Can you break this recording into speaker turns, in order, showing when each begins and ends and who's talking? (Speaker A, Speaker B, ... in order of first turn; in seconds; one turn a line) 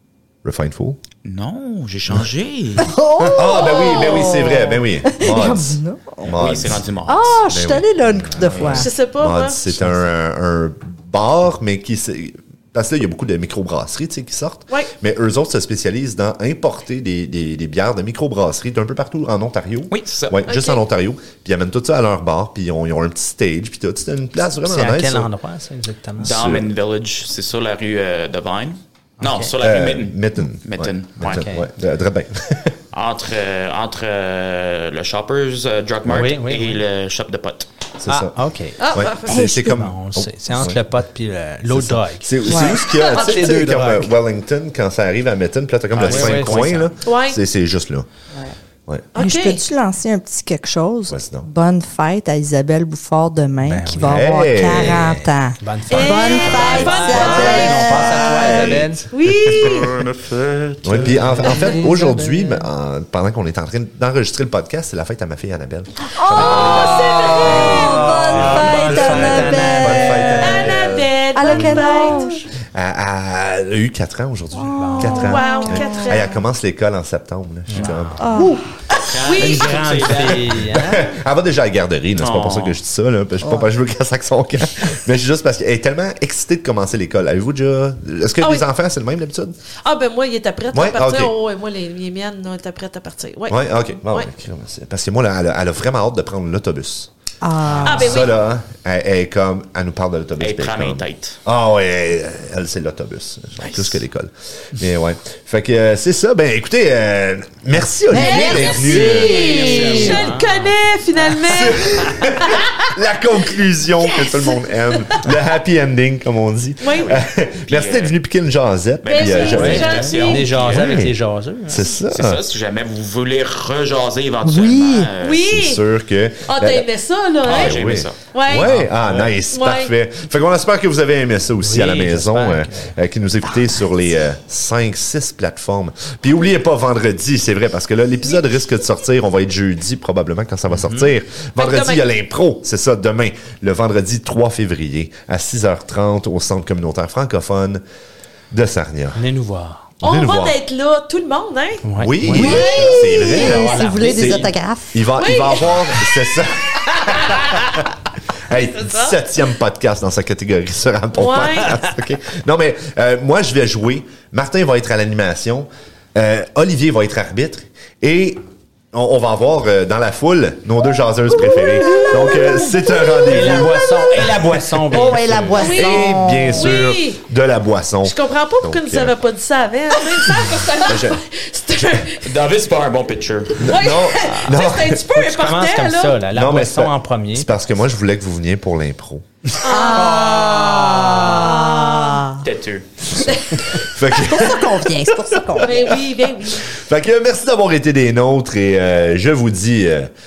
Speaker A: 0.4-1.0
Speaker B: 1.2-2.9
Speaker C: 2.8-8.9
Speaker A: 3.3-6.8
Speaker D: 3.6-4.5
Speaker B: 6.3-7.6
Speaker A: 7.5-25.3
Speaker B: 8.5-8.9
Speaker D: 8.7-9.6
Speaker B: 19.9-20.4
Speaker D: 20.5-20.8
Speaker E: 24.6-26.4
Speaker A: 26.2-26.7
Speaker B: 26.2-31.5
Speaker E: 29.2-29.5
Speaker A: 29.6-32.8
Speaker E: 31.2-31.7
Speaker B: 32.9-37.7
Speaker E: 36.1-36.8
Speaker A: 38.0-38.4
Speaker E: 38.1-38.9
Speaker D: 38.8-39.4
Speaker A: 38.9-40.8
Speaker C: 39.2-39.8
Speaker E: 39.6-44.1
Speaker A: 41.7-48.1
Speaker C: 42.5-42.9
Speaker D: 42.9-43.5
Speaker B: 45.9-47.0
Speaker E: 46.0-46.8
Speaker D: 47.0-47.4
Speaker D: 49.1-49.6
Speaker C: 49.2-58.9
Speaker A: 51.1-51.5
Speaker E: 53.6-59.1
Speaker A: 54.0-55.1
Speaker D: 55.9-60.0
Speaker B: 56.6-57.6
Speaker A: 57.0-59.9
Speaker B: 59.6-61.3
Speaker A: 60.8-71.1
Speaker E: 61.1-61.8
Speaker C: 61.4-62.7
Speaker C: 66.2-70.5
Speaker D: 66.3-69.5
Speaker B: 66.4-67.0
Speaker E: 67.0-70.8
Speaker B: 68.4-69.2
Speaker D: 70.4-72.4
Speaker C: 71.3-72.3
Speaker E: 71.5-72.4
Speaker A: 72.7-78.5
Speaker C: 74.6-76.4
Speaker E: 74.8-75.3
Speaker D: 75.2-76.3
Speaker E: 77.7-78.5
Speaker C: 78.2-79.1
Speaker B: 79.0-80.6
Speaker D: 79.2-79.7
Speaker E: 79.3-81.1
Speaker A: 80.7-89.6
Speaker B: 82.2-82.8
Speaker C: 83.4-83.7
Speaker D: 88.4-88.7
Speaker D: 89.8-94.3
Speaker A: 90.7-91.3
Speaker A: 93.5-97.1
Speaker C: 97.4-98.3
Speaker A: 97.7-109.4
Speaker E: 97.8-98.1
Speaker D: 97.8-98.3
Speaker B: 100.4-101.4
Speaker B: 103.6-104.0
Speaker D: 108.1-112.6
Speaker C: 108.1-110.1
Speaker B: 108.3-110.4
Speaker E: 109.3-110.8
Speaker A: 111.4-120.1
Speaker D: 114.0-115.3
Speaker D: 116.8-117.2
Speaker B: 117.0-118.2
Speaker B: 119.0-121.0
Speaker D: 119.1-120.5
Speaker E: 119.5-121.9
Speaker A: 120.7-122.4
Speaker B: 122.1-125.5
Speaker C: 124.4-125.1
Speaker D: 125.2-125.8
Speaker A: 125.4-126.9
Speaker D: 126.5-128.7
Speaker B: 127.4-128.2
Speaker A: 127.4-147.8
Speaker E: 128.7-129.3
Speaker D: 129.5-129.9
Speaker E: 131.6-132.9
Speaker E: 140.8-141.0
Speaker D: 141.6-142.0
Speaker A: 148.5-149.2
Speaker E: 149.2-149.9
Speaker A: 150.0-150.6
Speaker D: 150.0-153.7
Speaker E: 151.8-152.7
Speaker A: 152.0-157.6
Speaker C: 152.3-155.2
Speaker B: 152.4-154.5
Speaker D: 155.2-156.1
Speaker D: 157.0-157.7
Speaker A: 158.5-168.4
Speaker D: 158.5-159.2
Speaker D: 161.2-161.8
Speaker A: 168.9-174.5
Speaker D: 171.4-172.7
Speaker C: 171.8-176.8
Speaker E: 173.3-175.7
Speaker D: 175.6-177.2
Speaker A: 175.6-179.2
Speaker D: 178.0-182.3
Speaker A: 180.8-181.2
Speaker A: 181.8-182.0
Speaker B: 182.2-183.8
Speaker A: 183.6-185.1
Speaker D: 183.6-186.2
Speaker E: 185.1-187.5
Speaker A: 186.3-189.3
Speaker D: 189.6-192.2
Speaker C: 189.6-192.4
Speaker B: 192.4-192.9
Speaker D: 193.2-194.5
Speaker A: 193.2-200.1
Speaker C: 194.1-195.9
Speaker D: 195.6-196.7